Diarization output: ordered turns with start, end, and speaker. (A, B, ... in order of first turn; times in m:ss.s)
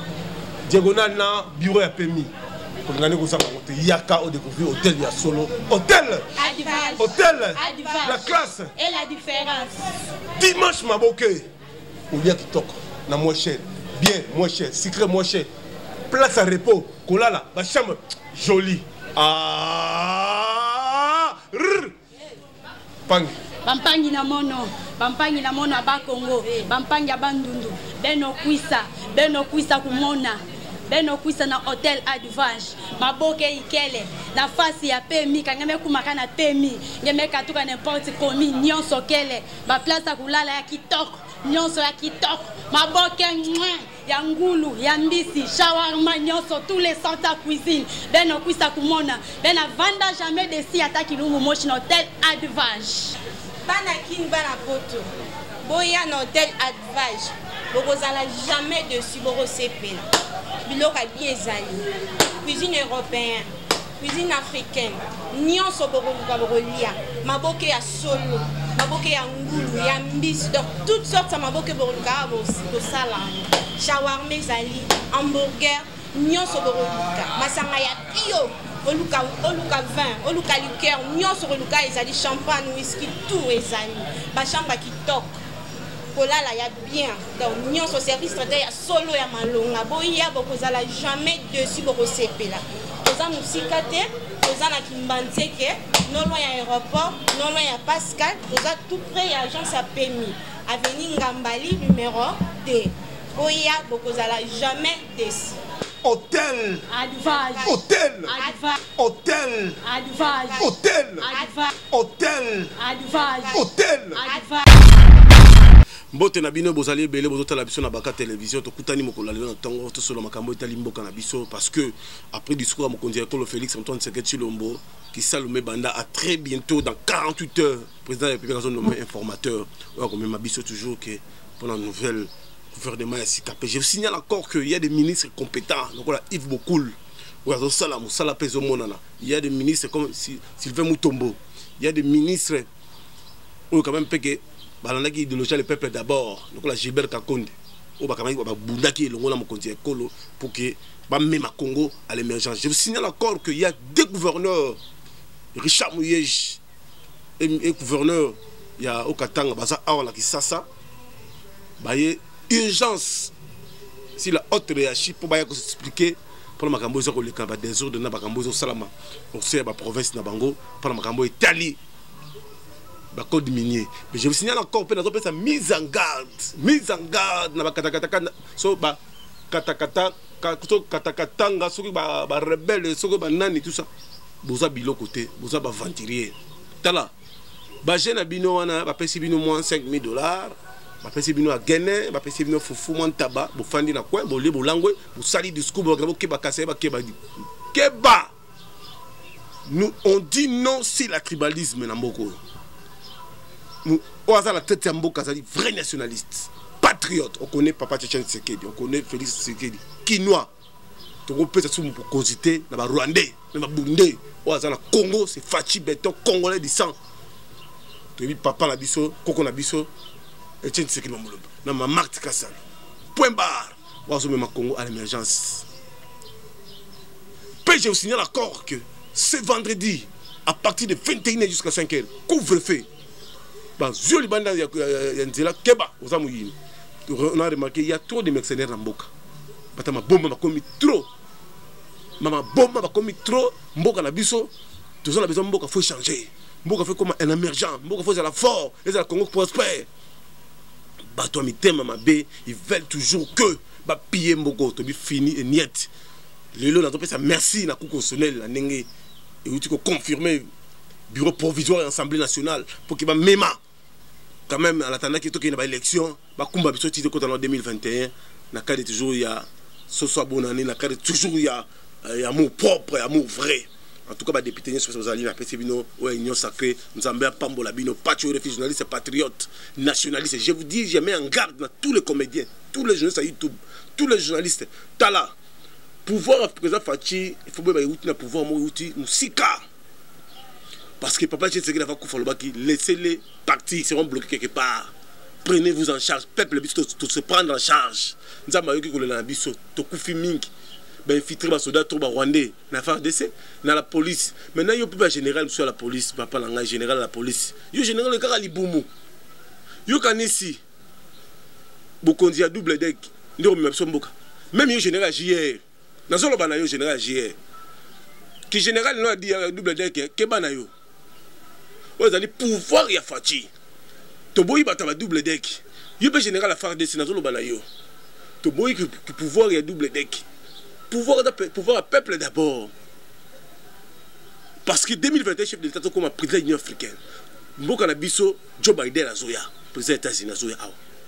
0:00.6-0:02.3 A
0:02.8-0:06.3 A
0:06.4-0:09.7 B
0:06.4-0:08.3 C
0:07.0-0:08.7 A
0:08.8-0:09.7 C
0:10.4-0:11.5 A
0:12.1-0:15.5 A
0:16.1-0:21.9 A
0:23.1-0:23.4 A
0:23.6-0:53.2 B
0:53.6-0:55.0 C
0:55.6-1:00.1 C
1:00.6-1:01.9 C
1:02.4-1:03.5 C
1:04.0-1:25.4 C
1:26.1-1:45.6 C
1:46.0-1:46.9 A
1:46.9-1:48.8 B
1:47.2-1:47.7 C
1:47.6-1:48.3 A
1:49.0-1:49.8 A
1:49.8-1:51.7 B
1:50.3-1:50.6 C
1:50.6-1:51.3 A
1:51.2-1:51.5 C
1:51.9-1:52.7 A
1:52.8-1:54.6 B
1:53.1-1:53.6 C
1:53.5-1:54.2 A
1:54.2-1:54.7 C
1:56.1-2:22.7 A
2:23.7-2:34.8 A
2:35.5-2:36.6 A
2:37.4-2:40.7 A
2:41.8-2:43.3 A
2:44.2-2:51.8 A
2:53.1-3:03.9 A
3:04.4-3:07.1 A
3:07.8-3:17.2 A
3:17.7-3:18.3 A
3:19.6-3:22.4 A
3:23.8-3:30.5 A
3:31.2-3:37.0 A
3:38.2-3:39.9 A
3:40.6-3:42.6 A
3:43.1-3:45.6 A
3:47.6-3:52.9 A
3:53.8-3:56.5 A
3:57.0-3:59.1 A
3:59.8-4:01.1 A
4:02.2-4:04.5 A
4:05.0-4:09.9 A
4:11.1-4:15.9 A
4:16.5-4:18.9 A
4:19.4-4:20.5 A
4:21.1-4:23.6 A
4:24.5-4:45.3 A
4:46.0-4:49.6 A
4:51.0-4:54.9 A
4:55.4-5:00.5 A
5:01.0-5:08.9 A
5:09.8-5:10.6 A
5:12.0-5:17.4 A
5:18.5-5:20.7 A
5:22.0-5:23.5 A
5:24.3-5:27.6 A
5:28.4-5:30.2 A
5:30.9-5:32.7 A
5:34.6-5:37.0 A
5:37.6-5:40.8 A